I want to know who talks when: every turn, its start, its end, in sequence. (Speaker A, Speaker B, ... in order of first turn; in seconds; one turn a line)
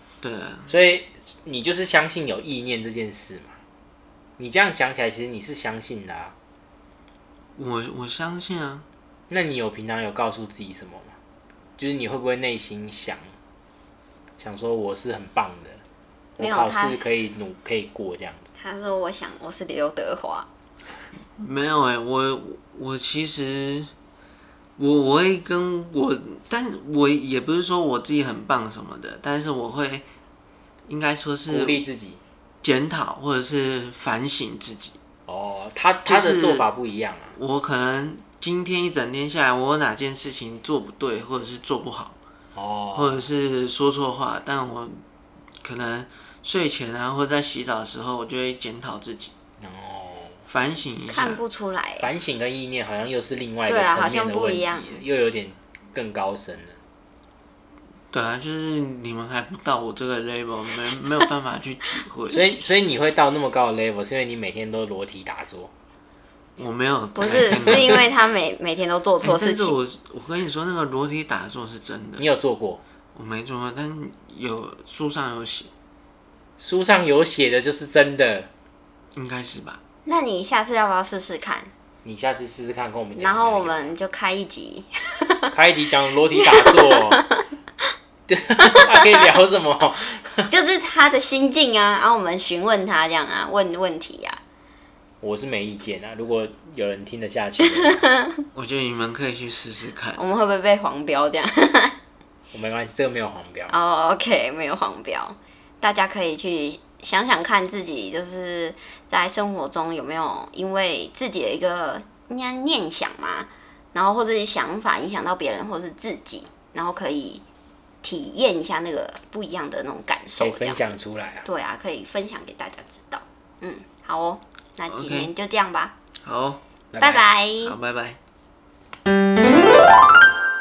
Speaker A: 0.2-0.7
Speaker B: 0.7-3.5
Speaker B: 4.4-6.3
Speaker A: 7.6-8.9
Speaker B: 9.3-11.2
Speaker B: 11.8-13.3
Speaker B: 14.4-15.8
Speaker B: 16.4-18.4
Speaker C: 16.4-17.0
Speaker C: 18.6-20.5
Speaker A: 21.4-23.9
Speaker A: 24.8-30.1
Speaker A: 30.9-31.8
Speaker B: 31.5-32.2
Speaker A: 32.6-35.0
Speaker B: 35.3-37.4
Speaker A: 36.0-36.7
Speaker A: 37.3-42.2
Speaker B: 42.5-43.3
Speaker A: 43.0-45.0
Speaker A: 45.6-49.3
Speaker B: 49.6-50.4
Speaker A: 50.5-51.4
Speaker C: 51.1-52.1
Speaker B: 52.0-56.8
Speaker C: 53.7-55.0
Speaker A: 58.1-62.5
Speaker B: 62.3-65.7
Speaker A: 66.6-68.1
Speaker C: 67.1-69.8
Speaker B: 67.2-68.0
Speaker A: 69.2-72.2
Speaker B: 72.2-72.8
Speaker A: 73.2-75.7
Speaker B: 76.6-78.5
Speaker A: 79.2-79.8
Speaker C: 80.1-81.7
Speaker B: 82.0-84.0
Speaker C: 83.2-85.5
Speaker B: 85.5-87.2
Speaker C: 86.4-87.4
Speaker B: 88.3-90.5
Speaker C: 88.7-89.0
Speaker C: 90.5-94.4
Speaker B: 95.2-98.1
Speaker C: 97.8-98.5
Speaker A: 98.5-100.2
Speaker C: 100.2-102.0
Speaker B: 102.5-103.8
Speaker C: 103.7-117.4
Speaker C: 118.0-125.9
Speaker B: 120.3-121.5
Speaker A: 124.9-125.3
Speaker A: 126.2-126.6
Speaker B: 126.9-127.2
Speaker C: 127.0-127.8
Speaker A: 127.6-128.2